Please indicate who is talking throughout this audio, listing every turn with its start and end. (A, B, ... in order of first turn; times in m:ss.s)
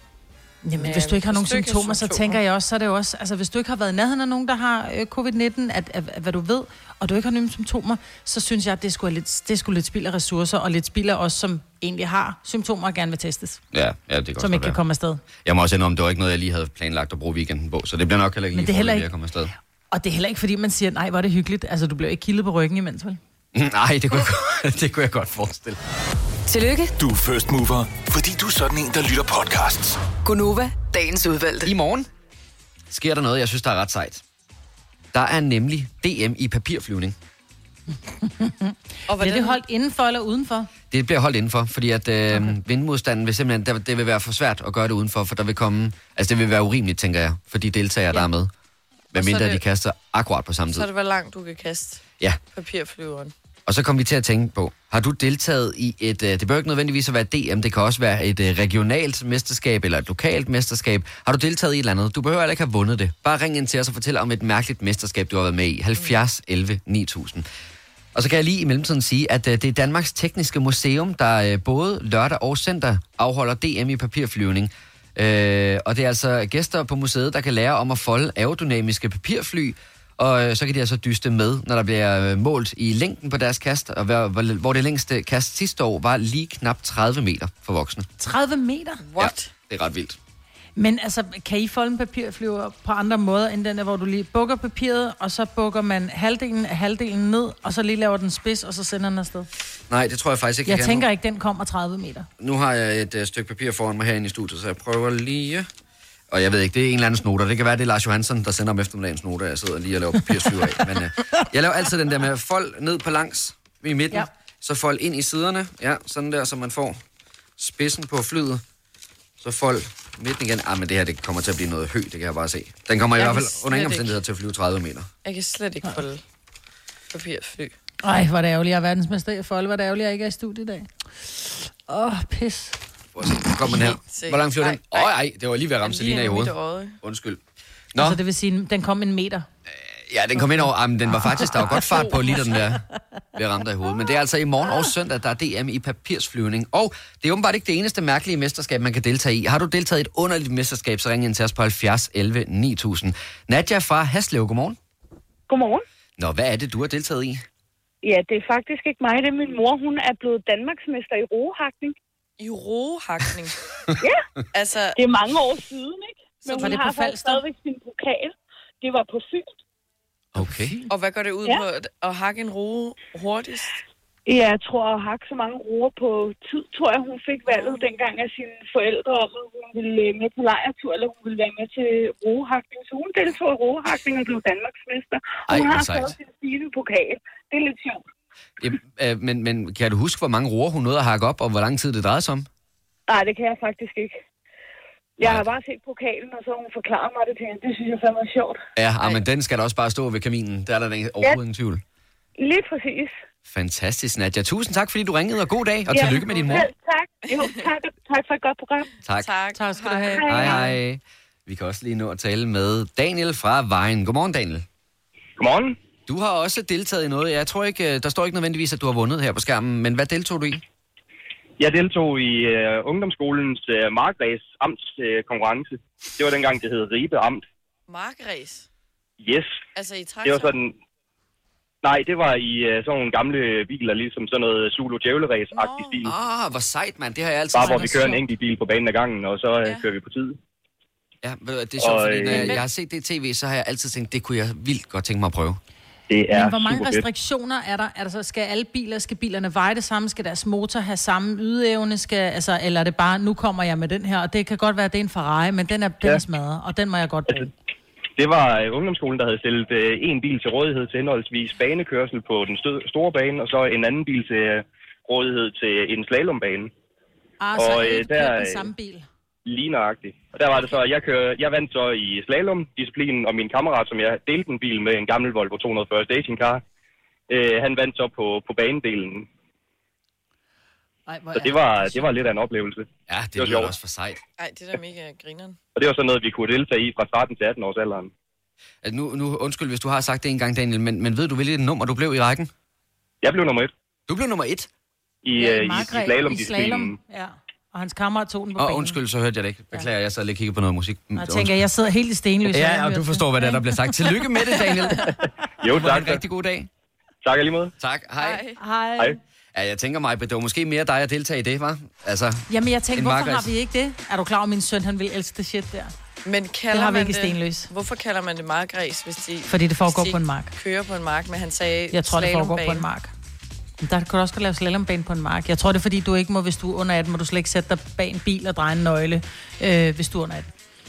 0:00.6-0:13.6 A
0:00.8-0:02.4 B
0:13.7-0:14.8 C
0:14.4-0:15.2 A
0:15.4-0:19.5 C
0:18.5-0:19.0 A
0:19.9-0:23.2 A
0:23.5-0:25.8 C
0:26.5-0:26.9 D
0:27.0-0:30.0 E
0:30.2-0:31.7 D
0:31.6-0:32.1 C
0:32.9-0:34.2 C
0:35.1-0:37.1 C
0:38.1-0:40.7 A
0:39.1-0:39.6 B
0:40.9-0:48.5 C
0:42.3-0:42.6 A
0:49.1-0:50.9 C
0:49.1-0:49.6 B
0:50.7-0:53.3 B
0:53.7-1:07.4 C
1:08.1-1:28.1 C
1:28.2-1:29.0 A
1:29.0-1:29.5 B
1:29.2-1:30.2 C
1:30.8-1:39.5 A
1:39.9-1:41.0 C
1:40.6-1:42.3 A
1:42.4-1:45.7 C
1:46.3-1:57.0 C
1:57.6-1:58.6 C
1:59.4-2:05.1 C
2:03.1-2:04.2 B
2:05.2-2:06.2 B
2:07.1-2:07.7 B
2:08.0-2:12.8 A
2:13.1-2:17.4 C
2:14.0-2:15.1 B
2:15.8-2:17.0 B
2:18.0-2:19.5 A
2:19.9-2:22.8 C
2:21.4-2:21.8 A
2:21.8-2:22.1 B
2:23.4-2:34.8 C
2:35.5-2:35.8 F
2:36.2-2:37.4 C
2:38.0-2:41.9 F
2:42.4-2:43.6 B
2:44.5-2:45.0 B
2:45.0-2:49.6 F
2:46.4-2:46.8 B
2:46.5-2:47.4 A
2:50.3-2:50.8 C
2:50.4-2:50.9 A
2:50.9-2:53.8 B
2:54.2-3:08.0 F
3:05.5-3:06.2 C
3:08.6-3:12.5 C
3:13.1-3:14.2 F
3:15.2-3:18.6 F
3:15.2-3:15.5 C
3:18.8-3:21.8 C
3:22.4-3:23.2 F
3:23.4-3:26.7 C
3:25.9-3:28.9 F
3:26.0-3:26.6 B
3:27.3-3:27.6 B
3:29.2-3:30.6 B
3:29.5-3:30.7 A
3:30.2-3:30.6 F
3:30.2-3:34.6 C
3:35.4-3:35.8 G
3:36.1-3:40.6 C
3:41.6-3:47.4 G
3:47.9-3:48.7 B
3:49.2-3:49.6 G
3:49.8-3:50.6 B
3:50.2-3:50.8 G
3:51.8-3:56.1 G
3:55.5-3:56.0 B
3:56.0-3:58.2 C
3:57.5-4:00.4 G
3:57.6-3:58.2 A
4:01.2-4:05.6 C
4:01.8-4:02.6 G
4:02.2-4:02.6 B
4:06.1-4:07.0 G
4:06.3-4:17.5 A
4:18.2-4:26.7 G
4:27.4-4:29.1 A
4:27.6-4:28.7 G
4:29.4-4:36.6 G
4:37.3-4:39.3 G
4:41.1-4:42.1 A
4:41.3-4:43.7 G
4:43.1-4:44.2 C
4:44.4-4:45.6 B
4:45.8-4:48.1 G
4:48.8-4:52.5 C
4:53.2-4:53.7 G
4:54.1-4:54.7 C
4:55.2-4:57.0 G
4:55.3-4:59.0 A
4:58.6-5:01.6 C
5:01.1-5:05.1 A
5:02.5-5:06.7 C
5:05.6-5:06.2 G
5:07.2-5:07.7 G
5:07.8-5:08.4 C
5:08.2-5:08.6 B
5:08.6-5:09.2 A
5:09.5-5:13.5 C
5:12.5-5:15.9 A
5:16.2-5:22.8 B
5:16.7-5:17.7 A
5:19.4-5:20.5 A
5:21.9-5:23.1 A
5:23.8-5:30.5 A